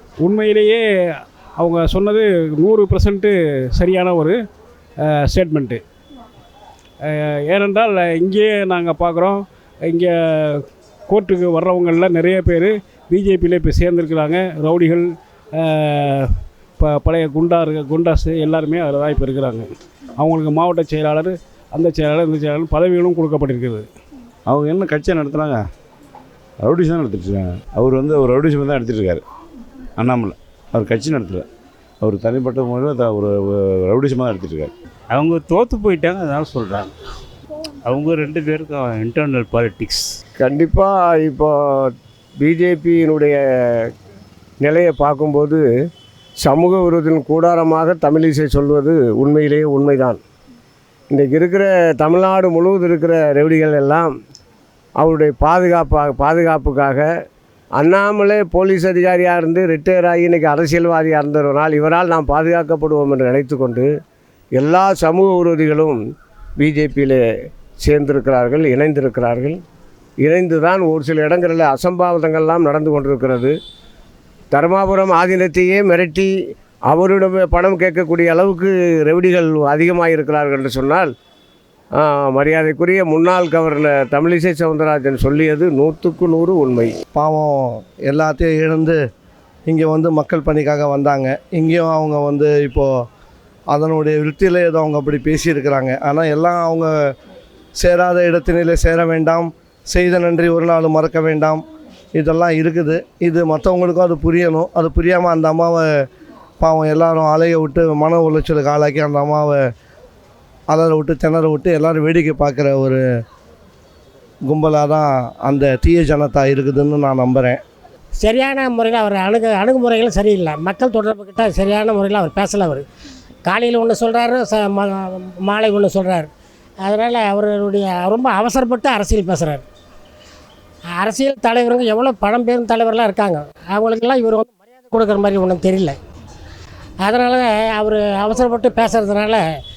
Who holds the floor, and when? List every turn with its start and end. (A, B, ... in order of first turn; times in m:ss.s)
0:00.2-0:00.8 A
0:01.6-0:04.4 A
0:05.1-0:05.8 A
0:07.0-0:15.0 A
0:15.6-0:19.7 A
0:20.2-0:23.9 A
0:24.5-0:25.6 B
0:26.6-0:29.2 B
0:30.0-0:31.4 B
0:32.0-0:34.7 B
0:35.1-0:36.9 C
0:37.8-0:40.1 C
0:40.5-0:41.4 D
0:42.5-0:43.3 D
0:44.7-0:45.6 D
0:46.4-0:50.2 D
0:51.2-0:54.1 D
0:55.0-0:57.0 D
0:57.8-1:03.8 D
1:04.6-1:06.0 D
1:06.6-1:07.2 D
1:07.8-1:09.5 D
1:10.3-1:13.5 D
1:14.6-1:16.3 D
1:16.9-1:21.1 D
1:22.0-1:26.9 D
1:27.1-1:29.0 E
1:29.7-1:32.9 E
1:33.7-1:37.1 E
1:37.8-1:41.6 E
1:42.1-1:46.0 E
1:46.6-1:49.6 E
1:50.7-1:53.0 E
1:54.4-1:57.6 E
1:58.2-2:02.8 F
2:03.4-2:06.3 F
2:06.8-2:09.6 F
2:10.9-2:16.0 F
2:17.0-2:19.4 F